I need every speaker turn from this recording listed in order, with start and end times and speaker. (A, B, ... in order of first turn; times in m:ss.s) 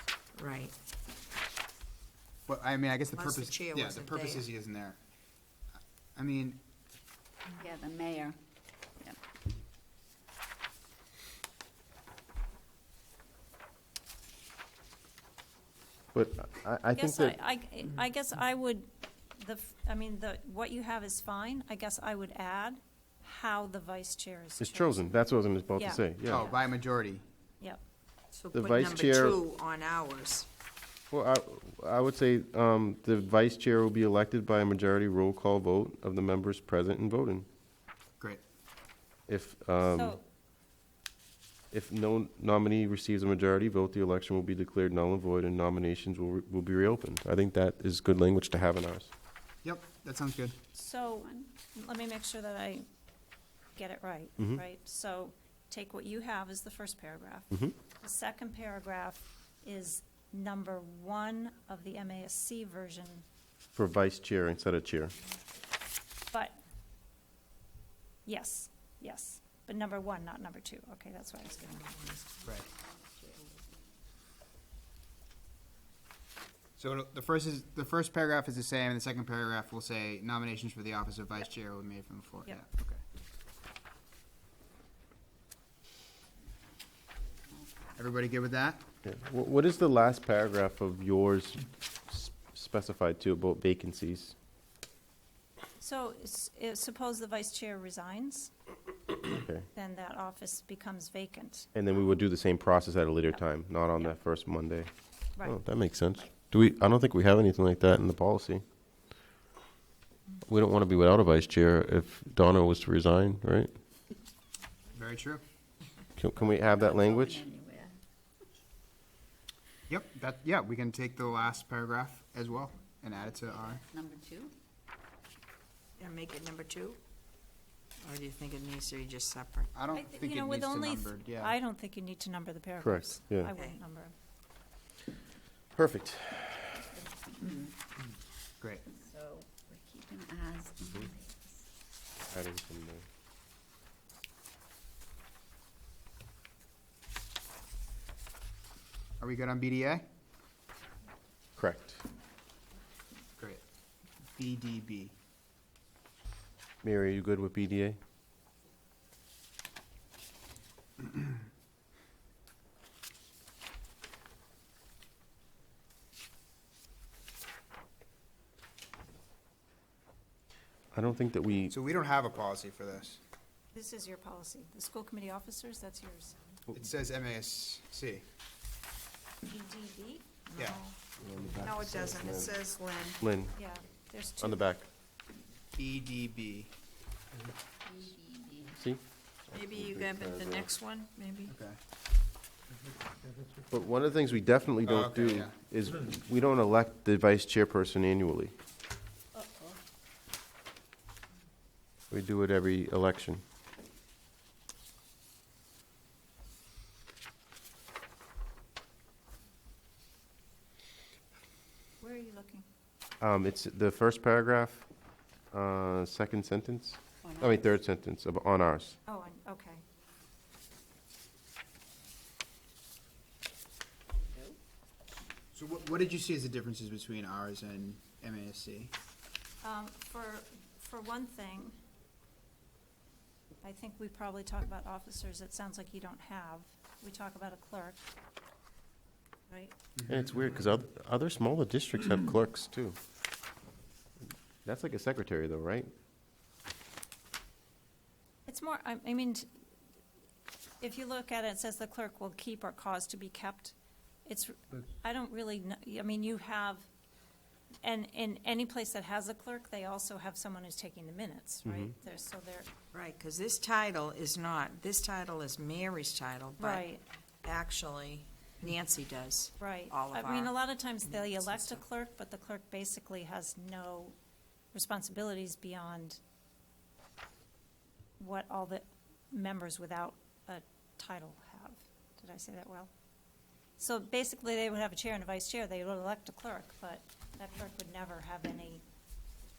0:00.4-0:00.7 A
0:02.5-0:05.0 B
0:03.1-0:04.5 A
0:06.2-0:06.6 B
0:07.6-0:08.4 C
0:16.1-0:17.4 D
0:17.0-0:25.1 E
0:24.6-0:26.5 D
0:25.8-0:26.6 E
0:26.3-0:27.2 B
0:28.3-0:30.5 A
0:28.5-0:29.4 D
0:31.1-0:37.5 D
0:39.3-0:40.2 D
0:39.9-0:40.2 E
0:41.7-0:49.1 D
0:49.6-0:50.6 B
0:50.7-0:52.8 E
0:53.8-1:03.2 E
1:03.7-1:05.2 D
1:06.3-1:06.6 E
1:08.2-1:12.2 E
1:12.4-1:12.7 B
1:16.8-1:23.0 B
1:28.0-1:28.8 B
1:29.0-1:34.3 D
1:35.8-1:38.5 E
1:39.2-1:39.7 D
1:39.7-1:41.7 E
1:41.8-1:48.6 D
1:50.4-1:53.7 D
1:54.9-1:55.4 B
1:56.2-1:57.4 D
1:56.8-1:57.9 C
1:59.9-2:03.8 B
2:03.4-2:04.5 C
2:06.0-2:07.0 A
2:08.0-2:09.7 A
2:09.8-2:11.6 B
2:09.9-2:14.1 E
2:12.8-2:13.5 D
2:15.8-2:16.8 D
2:17.0-2:17.7 C
2:18.6-2:18.9 B
2:18.9-2:21.4 C
2:22.3-2:23.0 D
2:29.2-2:30.0 B
2:31.6-2:32.0 D
2:34.4-2:35.1 B
2:36.8-2:38.0 D
2:50.9-2:51.8 D
2:51.7-2:53.2 B
2:53.7-2:56.4 E
2:56.7-2:58.2 B
2:59.5-3:00.4 E
3:00.5-3:01.0 A
3:00.6-3:00.8 B
3:01.2-3:02.5 D
3:01.6-3:03.2 A
3:03.2-3:03.6 D
3:03.6-3:04.6 E
3:04.4-3:04.9 D
3:05.8-3:06.7 B
3:07.9-3:08.8 C
3:08.8-3:10.7 D
3:09.5-3:11.5 A
3:11.5-3:11.8 B
3:13.7-3:18.5 D
3:14.8-3:15.5 B
3:22.1-3:23.4 D
3:32.0-3:32.7 E
3:33.2-3:34.9 D
3:35.5-3:39.0 D
3:39.1-3:39.8 E
3:45.5-3:48.9 B
3:49.6-3:51.8 E
3:53.6-3:58.0 E
4:00.1-4:03.0 D
4:04.6-4:05.9 D
4:08.5-4:09.5 E
4:10.8-4:16.9 E
4:17.8-4:22.7 E
4:21.6-4:21.9 D
4:22.9-4:26.9 A
4:26.6-4:27.0 E
4:27.4-4:30.5 A
4:29.6-4:34.2 E
4:31.1-4:31.8 A
4:34.7-4:36.2 E
4:38.2-4:42.9 E
4:43.8-4:48.8 E